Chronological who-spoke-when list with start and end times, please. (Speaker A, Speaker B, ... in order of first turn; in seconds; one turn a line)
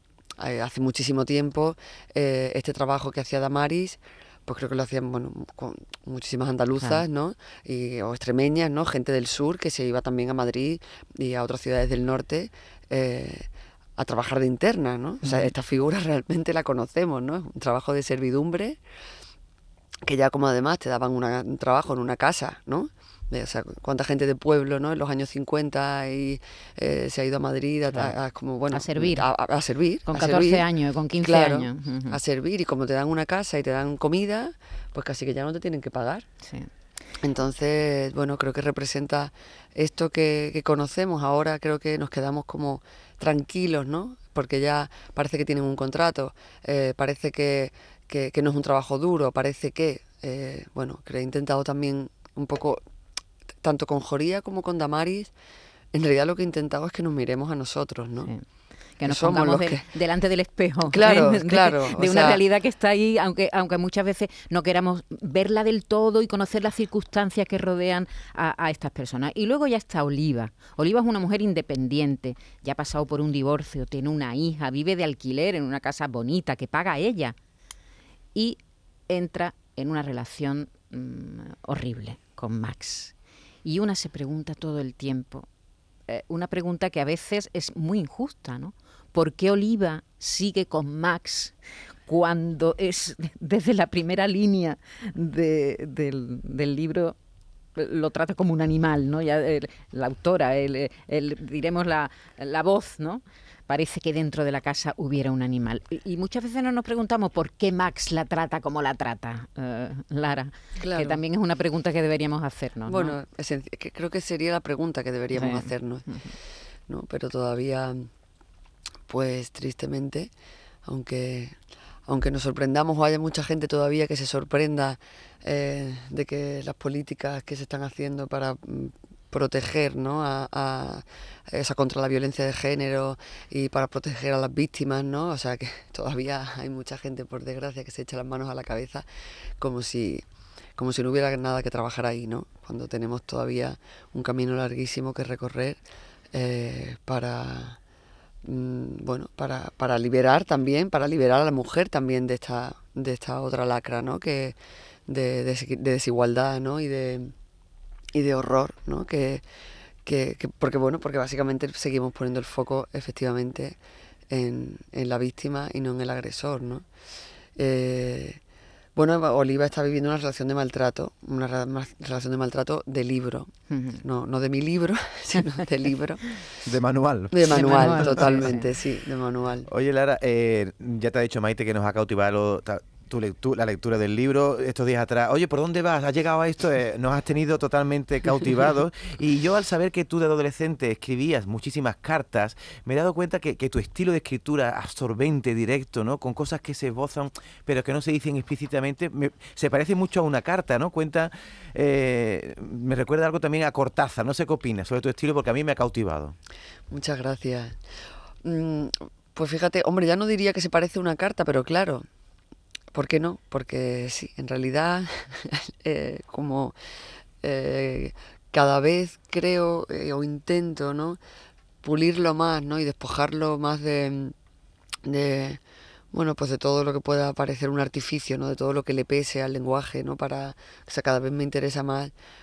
Speaker A: 0.4-18.8
Speaker B: 15.2-15.5
Speaker A: 20.1-30.7
Speaker B: 28.7-29.3
Speaker B: 30.1-32.2
Speaker A: 31.2-36.3
Speaker B: 36.4-36.7
Speaker A: 37.2-52.8
Speaker A: 53.6-55.3
Speaker A: 55.9-58.3
Speaker B: 59.0-77.4
Speaker A: 59.1-59.9
Speaker A: 60.9-62.4
Speaker B: 78.3-85.5
Speaker B: 86.1-91.5
Speaker B: 92.1-97.2
Speaker B: 97.8-113.2
Speaker A: 110.8-111.2
Speaker A: 112.9-116.1
Speaker B: 115.3-116.4
Speaker A: 116.9-118.1
Speaker A: 119.1-120.3
Speaker A: 120.8-139.1
Speaker A: 139.6-140.2
Speaker A: 140.8-145.8
Speaker A: 146.3-147.8
Speaker A: 148.4-157.3
Speaker A: 158.1-159.4
Speaker A: 160.1-163.8
Speaker A: 164.3-166.9
Speaker A: 167.6-168.4
Speaker A: 168.9-176.4
Speaker B: 173.7-174.0
Speaker C: 176.6-178.4
Speaker A: 177.3-179.7
Speaker B: 177.5-178.7
Speaker C: 179.7-206.3
Speaker A: 206.9-207.8
Speaker A: 208.4-212.1
Speaker A: 212.9-216.8
Speaker A: 217.4-221.2
Speaker A: 221.8-224.3
Speaker A: 225.0-225.6
Speaker A: 226.1-232.1